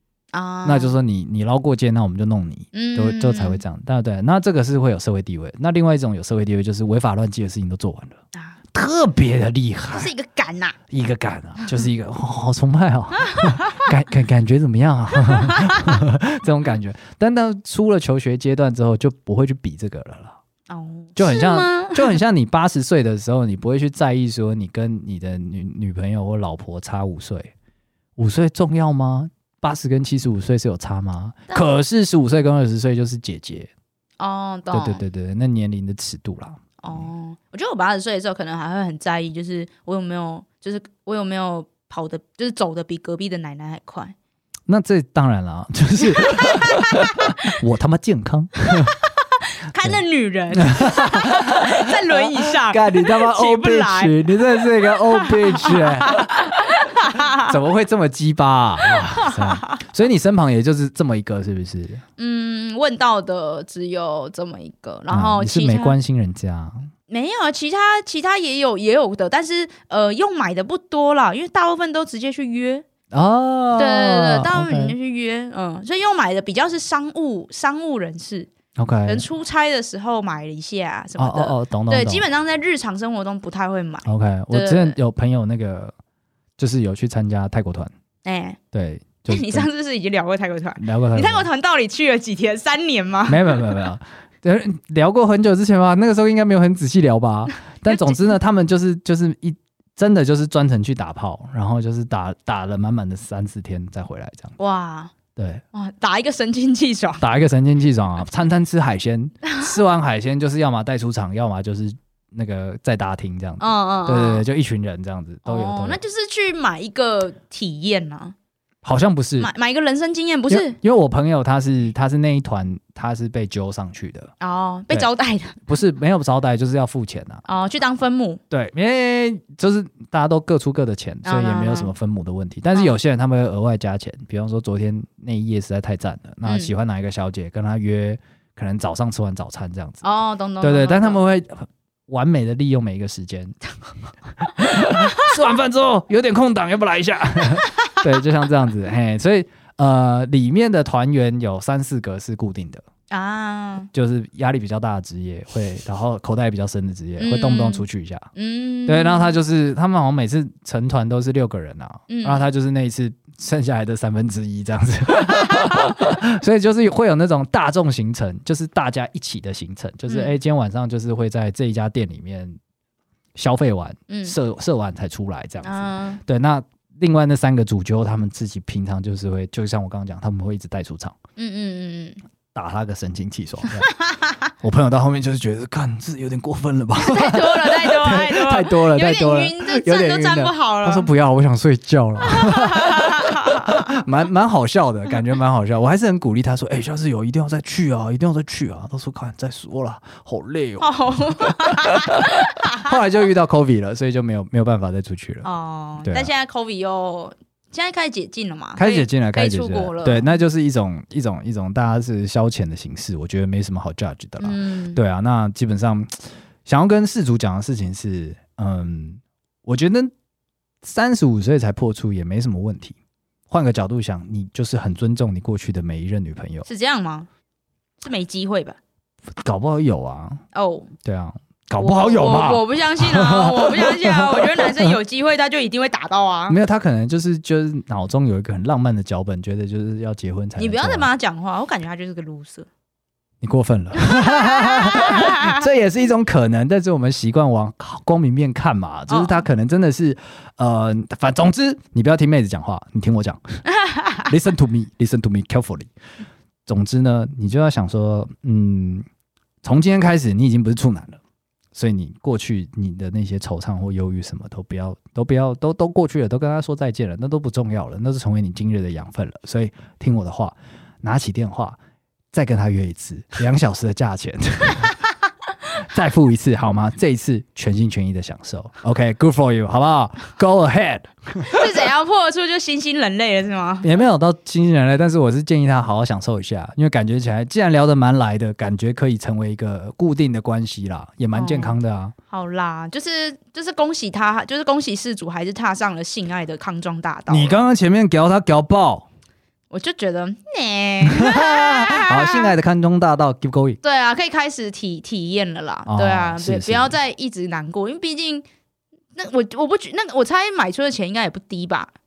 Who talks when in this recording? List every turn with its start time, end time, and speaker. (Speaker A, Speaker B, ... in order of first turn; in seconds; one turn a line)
Speaker A: 0.3-0.9
Speaker B: 0.6-8.2
Speaker A: 2.7-3.6
Speaker B: 8.7-10.1
Speaker A: 9.9-10.8
Speaker B: 10.9-20.4
Speaker A: 13.3-13.7
Speaker A: 15.3-15.8
Speaker A: 20.7-22.2
Speaker B: 21.2-27.5
Speaker B: 28.2-33.7
Speaker A: 34.2-35.0
Speaker B: 34.7-37.0
Speaker A: 36.8-44.1
Speaker B: 44.7-49.0
Speaker A: 46.3-47.1
Speaker A: 49.6-57.5
Speaker B: 49.8-50.0
Speaker B: 50.5-56.5
Speaker B: 57.5-62.0
Speaker A: 58.9-59.8
Speaker A: 62.2-66.0
Speaker B: 65.1-66.9
Speaker A: 67.1-72.8
Speaker B: 73.1-75.0
Speaker A: 73.8-78.5
Speaker B: 78.8-79.2
Speaker A: 79.0-85.0
Speaker B: 81.2-82.2
Speaker B: 84.0-86.0
Speaker B: 86.6-87.9
Speaker A: 88.2-88.6
Speaker B: 88.7-89.7
Speaker A: 89.3-93.6
Speaker B: 90.8-91.5
Speaker B: 93.2-104.5
Speaker A: 97.9-98.2
Speaker A: 104.6-105.1
Speaker B: 105.4-105.6
Speaker A: 105.7-107.2
Speaker B: 107.2-116.0
Speaker A: 113.6-114.5
Speaker A: 115.5-118.3
Speaker B: 118.8-119.5
Speaker A: 119.4-120.8
Speaker B: 120.5-124.3
Speaker A: 124.4-125.6
Speaker B: 125.7-127.4
Speaker A: 127.5-128.4
Speaker B: 128.5-140.0
Speaker A: 131.2-131.9
Speaker A: 136.4-136.7
Speaker A: 140.0-141.2
Speaker B: 140.6-143.6
Speaker B: 144.4-152.8
Speaker A: 153.1-153.9
Speaker B: 153.9-158.3
Speaker A: 157.2-159.4
Speaker B: 158.9-172.6
Speaker A: 162.1-162.5
Speaker A: 170.1-170.3
Speaker B: 173.3-181.2
Speaker A: 174.1-174.4
Speaker A: 175.6-176.2
Speaker A: 181.4-182.2
Speaker B: 182.5-183.9
Speaker A: 183.9-184.4
Speaker B: 184.6-205.5
Speaker A: 187.0-191.1
Speaker A: 192.2-193.9
Speaker A: 200.8-202.9
Speaker A: 205.4-210.3
Speaker B: 206.0-206.3
Speaker B: 208.8-220.1
Speaker A: 214.4-215.0
Speaker B: 220.8-223.0
Speaker B: 223.5-226.7
Speaker A: 226.7-227.3
Speaker A: 228.0-228.8
Speaker B: 229.4-230.4
Speaker A: 230.5-230.9
Speaker B: 231.0-235.0
Speaker A: 231.8-236.6
Speaker B: 236.5-241.1
Speaker A: 240.6-242.7
Speaker B: 243.4-253.6
Speaker A: 244.0-245.6
Speaker A: 249.1-249.4
Speaker A: 253.8-254.2
Speaker B: 254.2-255.9
Speaker B: 256.7-259.1
Speaker B: 259.6-261.2
Speaker B: 261.7-271.8
Speaker B: 272.3-274.9
Speaker B: 275.8-281.7
Speaker A: 281.5-283.9
Speaker B: 283.8-292.1
Speaker A: 291.3-291.8
Speaker A: 292.3-297.6
Speaker B: 297.3-299.1
Speaker A: 299.7-302.5
Speaker B: 301.1-303.8
Speaker A: 303.8-308.4
Speaker B: 305.9-306.9
Speaker A: 309.2-311.9